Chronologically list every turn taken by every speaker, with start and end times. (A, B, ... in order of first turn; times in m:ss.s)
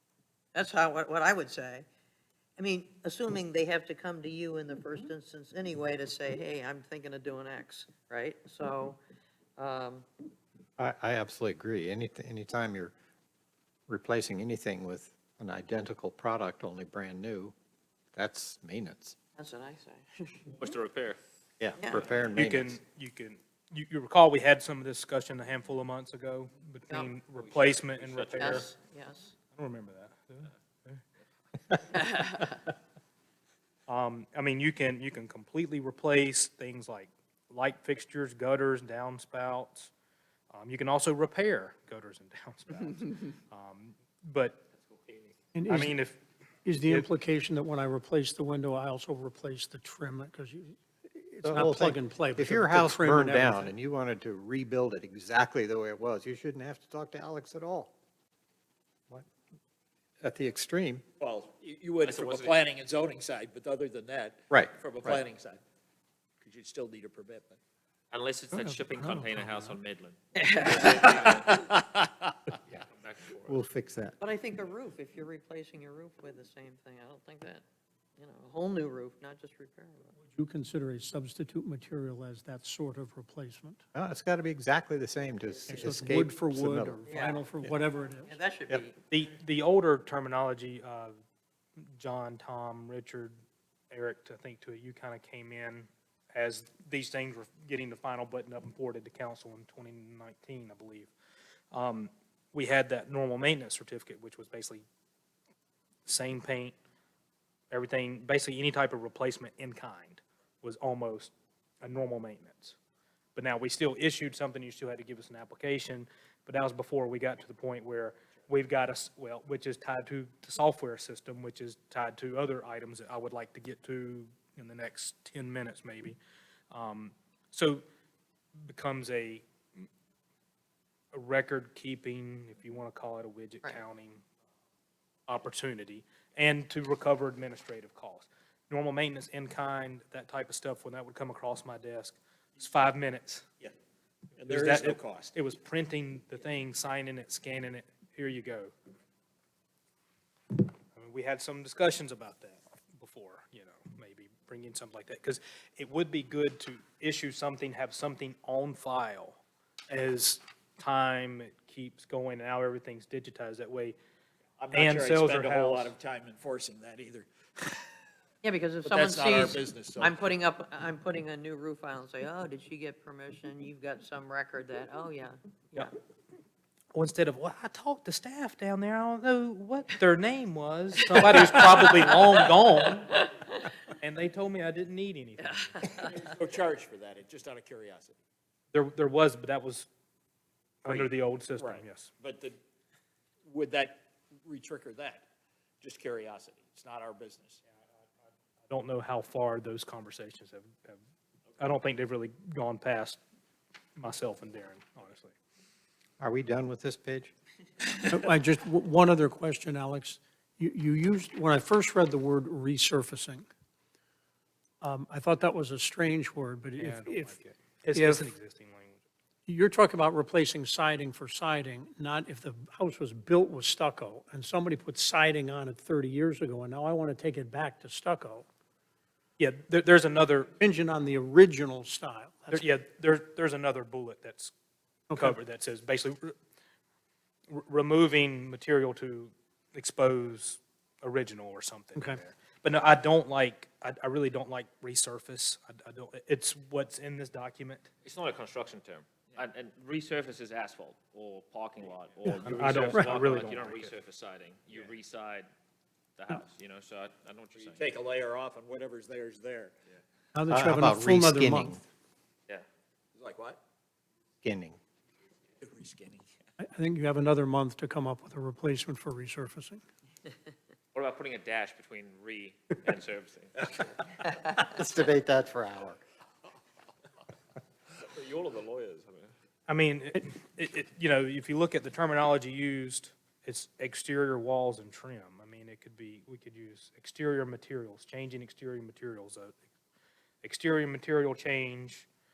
0:00.6-0:01.9 A
0:02.6-0:09.0 A
0:09.6-0:10.1 A
0:10.8-0:12.9 B
0:13.9-0:17.5 B
0:18.1-0:19.2 B
0:19.4-0:20.4 A
0:20.5-0:21.2 C
0:21.6-0:22.7 B
0:21.8-0:22.1 A
0:22.3-0:28.7 D
0:27.4-0:28.7 C
0:28.4-0:29.3 A
0:29.5-0:31.0 D
0:32.1-0:32.5 A
0:33.9-0:39.9 D
0:40.5-0:44.6 D
0:44.8-0:45.3 C
0:45.6-0:46.0 E
0:45.7-0:46.2 D
0:46.6-0:53.7 E
0:46.8-0:47.1 D
0:51.4-0:57.9 B
1:00.2-1:01.0 B
1:01.2-1:05.6 F
1:02.0-1:02.6 C
1:04.5-1:05.2 B
1:06.4-1:07.6 F
1:08.1-1:11.6 C
1:08.6-1:09.7 E
1:10.4-1:11.3 A
1:11.2-1:12.0 F
1:12.9-1:13.6 C
1:13.4-1:14.2 B
1:14.2-1:17.6 A
1:18.2-1:20.2 A
1:20.3-1:23.8 E
1:23.9-1:27.0 B
1:25.7-1:28.3 E
1:27.1-1:27.4 A
1:28.2-1:29.0 A
1:29.1-1:31.2 D
1:32.0-1:33.3 D
1:33.9-1:41.1 D
1:41.7-1:44.8 D
1:46.1-1:46.8 D
1:47.7-1:51.3 D
1:51.8-1:52.8 D
1:53.4-2:06.2 D
2:06.7-2:07.8 D
2:08.7-2:09.5 D
2:11.1-2:14.2 D
2:15.3-2:23.5 D
2:24.4-2:25.3 F
2:24.5-2:28.7 D
2:31.0-2:44.0 D
2:44.6-2:47.8 F
2:44.7-2:45.9 D
2:48.4-2:55.9 A
2:48.8-2:50.3 F
2:57.0-3:03.3 D
3:01.1-3:02.0 A
3:03.1-3:03.7 A
3:04.0-3:05.9 D
3:05.4-3:06.2 A
3:06.0-3:08.2 F
3:08.7-3:09.9 D
3:10.8-3:12.1 D
3:10.9-3:12.6 F
3:13.5-3:15.3 F
3:15.8-3:17.6 F
3:18.7-3:21.0 D
3:21.6-3:23.2 D
3:24.0-3:25.4 D
3:26.2-3:27.3 B
3:28.1-3:33.5 E
3:34.8-3:37.4 E
3:36.8-3:39.0 D
3:37.9-3:38.3 E
3:39.5-3:48.5 E
3:49.4-3:50.5 D
3:50.6-3:52.7 E
3:52.5-3:54.5 D
3:55.1-3:55.4 E
3:55.2-3:56.4 D
3:57.5-4:07.9 D
4:01.9-4:02.2 E
4:08.0-4:15.5 C
4:12.4-4:13.9 D
4:12.9-4:13.2 E
4:16.2-4:17.9 C
4:17.6-4:19.7 F
4:20.3-4:21.8 E
4:20.5-4:21.8 B
4:23.2-4:23.6 F
4:24.4-4:24.8 B
4:25.6-4:26.2 F
4:26.6-4:29.8 E
4:30.9-4:33.9 C
4:34.5-4:36.0 B
4:38.0-4:39.3 C
4:39.7-4:49.6 D
4:50.4-4:52.1 D